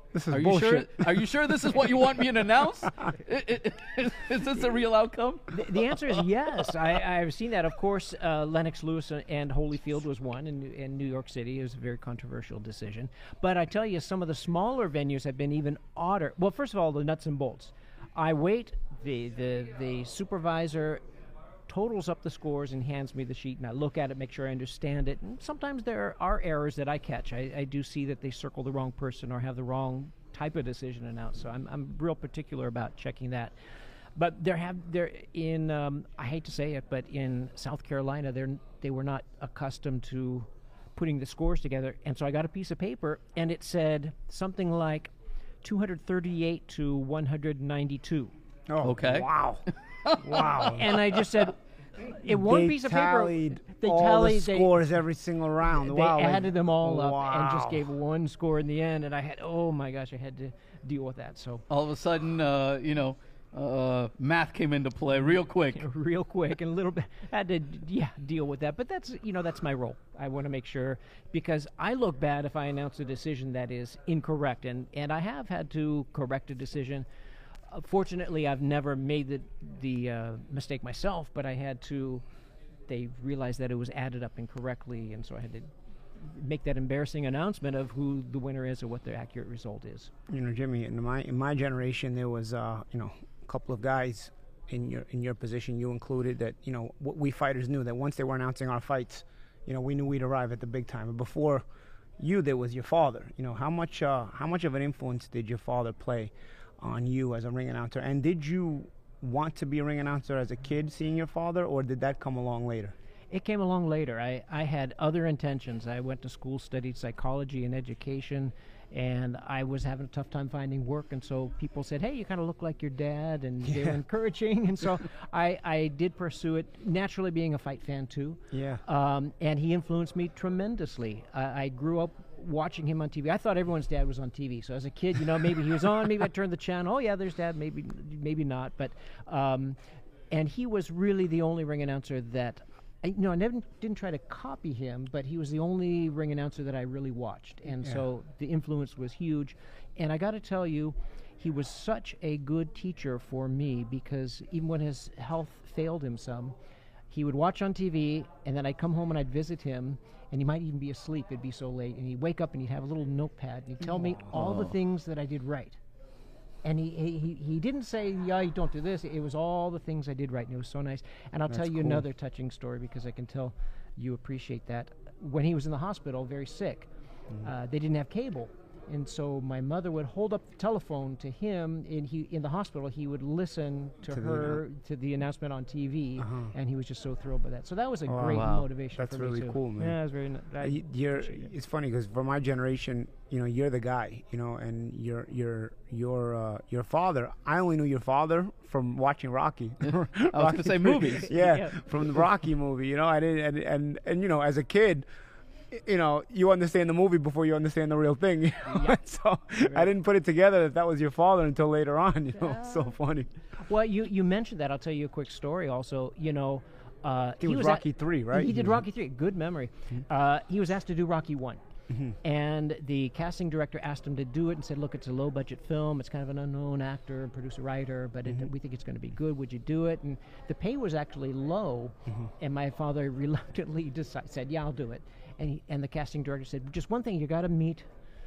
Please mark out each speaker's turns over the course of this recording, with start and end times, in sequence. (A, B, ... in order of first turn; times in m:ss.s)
0:00.1-0:01.5 A
0:00.3-0:05.8 B
0:05.5-0:21.0 C
0:21.7-0:33.5 C
0:34.2-0:45.1 C
0:45.6-0:48.3 C
0:48.7-0:49.6 A
0:48.8-0:49.3 B
0:50.0-0:50.8 B
0:50.2-0:51.0 A
0:50.6-0:54.7 C
0:52.2-0:57.8 A
0:55.8-1:01.6 C
1:01.7-1:05.8 B
1:05.3-1:17.0 C
1:17.7-1:22.2 C
1:22.9-1:30.1 C
1:30.3-1:41.6 A
1:42.2-1:52.9 A
1:53.3-2:19.8 C
2:08.5-2:08.8 A
2:20.3-2:36.5 C
2:37.1-2:45.8 C
2:43.9-2:44.3 A
2:44.4-2:44.7 B
2:46.6-2:56.9 C
2:51.5-2:52.0 A
2:57.4-3:11.5 C
3:04.1-3:04.6 A
3:06.2-3:06.5 A
3:08.1-3:10.0 A
3:08.3-3:08.6 B
3:10.6-3:25.0 A
3:20.3-3:21.3 B
3:21.3-3:21.8 C
3:25.7-3:33.3 A
3:28.7-3:29.0 C
3:29.6-3:29.9 C
3:33.6-3:41.6 C
3:37.4-3:38.8 A
3:42.2-3:57.9 C